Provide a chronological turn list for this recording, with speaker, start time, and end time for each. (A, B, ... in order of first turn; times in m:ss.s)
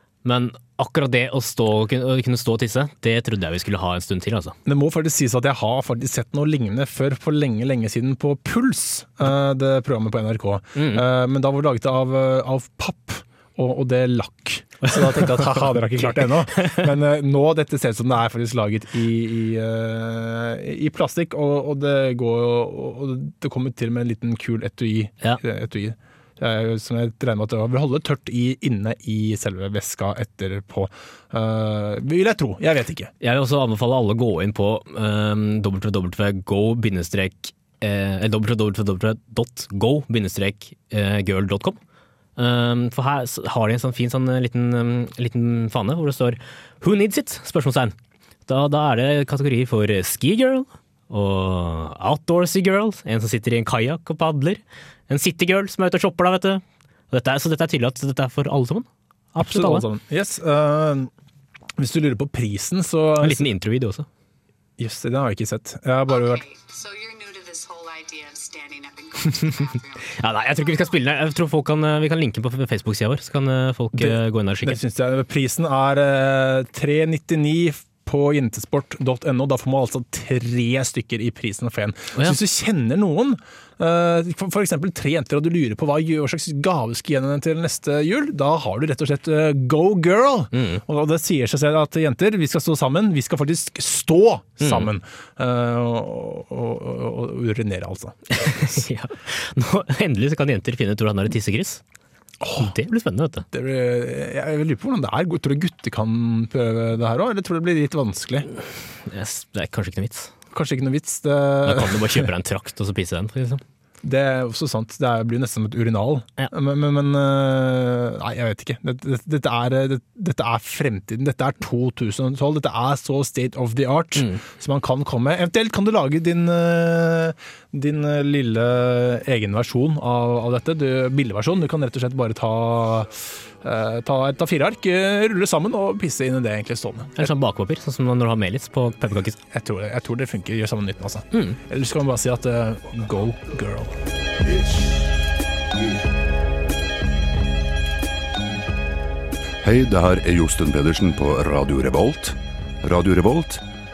0:00.2-0:04.6 A
0:04.6-0:33.1 B
0:10.7-0:11.0 A
0:14.8-0:15.5 A
0:16.6-0:16.8 A
0:33.2-0:41.8 A
0:42.4-0:47.9 A
0:48.5-0:59.8 A
0:59.4-1:01.1 B
1:01.8-1:03.4 B
1:03.2-1:04.1 A
1:04.8-1:06.4 B
1:06.1-1:10.9 C
1:10.1-1:14.8 A
1:13.9-1:38.8 B
1:30.5-1:30.8 A
1:34.6-1:34.9 A
1:38.3-1:41.8 A
1:42.4-1:42.7 B
1:42.6-1:43.4 A
1:43.5-1:48.5 B
1:49.1-1:50.3 A
1:50.5-1:52.3 B
1:51.6-1:53.6 A
1:54.0-2:17.3 B
2:04.2-2:04.4 A
2:17.2-2:19.4 A
2:19.5-2:23.9 B
2:21.3-2:21.6 A
2:29.6-2:33.6 D